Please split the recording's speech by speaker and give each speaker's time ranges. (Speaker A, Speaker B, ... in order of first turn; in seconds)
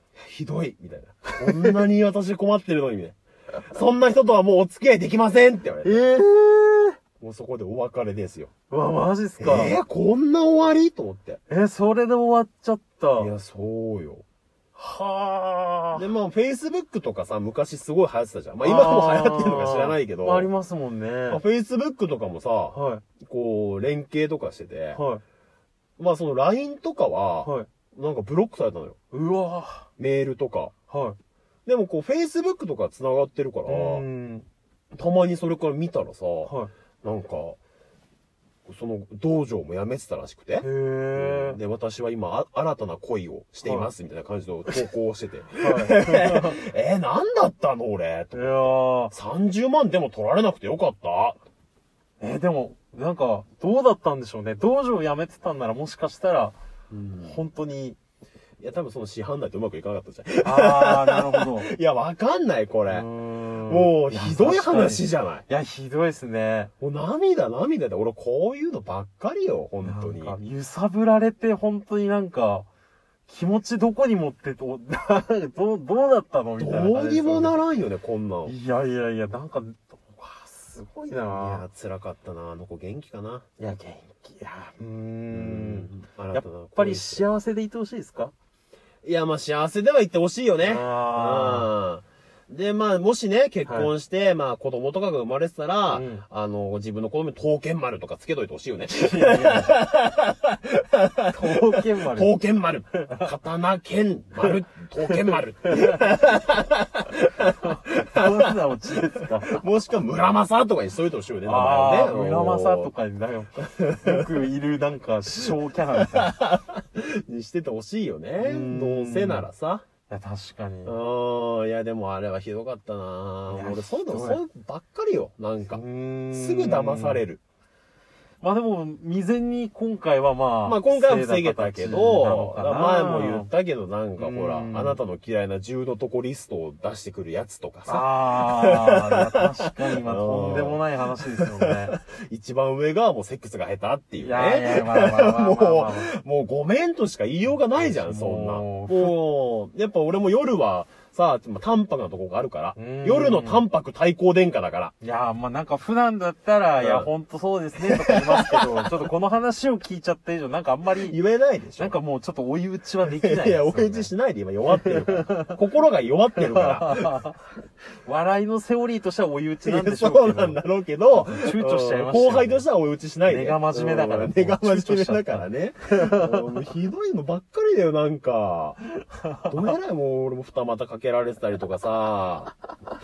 Speaker A: 0.2-6.0, 7.2-8.5, 9.4-11.4, 13.2-14.2, 15.9-20.5, 21.3-25.0, 26.0-29.0, 30.0-30.7, 31.7-34.0, 34.9-37.6, 38.7-51.4, 56.9-57.4, 58.6-63.1, 63.7-65.5, 66.8-70.4, 76.6-78.5, 81.1-83.5, 85.3-87.2, 89.0-108.5, 109.2-112.9, 113.8-114.2, 116.0-119.8, 120.8-127.4, 130.7-154.9, 156.8-157.1, 158.0-158.9, 161.0-162.0, 163.1-167.2, 169.6-178.8, 179.4-182.5
Speaker B: 1.4-1.8, 5.8-7.0, 8.7-9.8, 11.5-13.3, 14.8-16.0, 18.6-21.4, 22.7-23.0, 24.9-25.2, 29.1-29.9, 30.9-31.2, 33.7-34.5, 36.5-36.7, 40.6-41.6, 45.6-46.6, 48.3-49.1, 52.2-56.6, 57.2-58.0, 60.4-61.7, 62.9-66.7, 69.8-72.7, 73.3-77.6, 78.5-81.6, 83.6-88.3, 90.6-91.7, 95.9-96.2, 98.9-99.8, 101.3-102.4, 102.9-103.3, 105.1-106.1, 107.6-109.6, 111.5-116.4, 118.4-119.5, 120.1-120.9, 123.5-124.4, 125.7-127.2, 128.4-133.5, 134.2-135.0, 137.9-141.9, 144.2-146.1, 147.7-149.2, 152.8-153.7, 155.0-161.2, 161.8-164.1, 164.7-165.6, 166.4-167.4, 168.1-172.6, 173.3-176.5, 179.2-179.7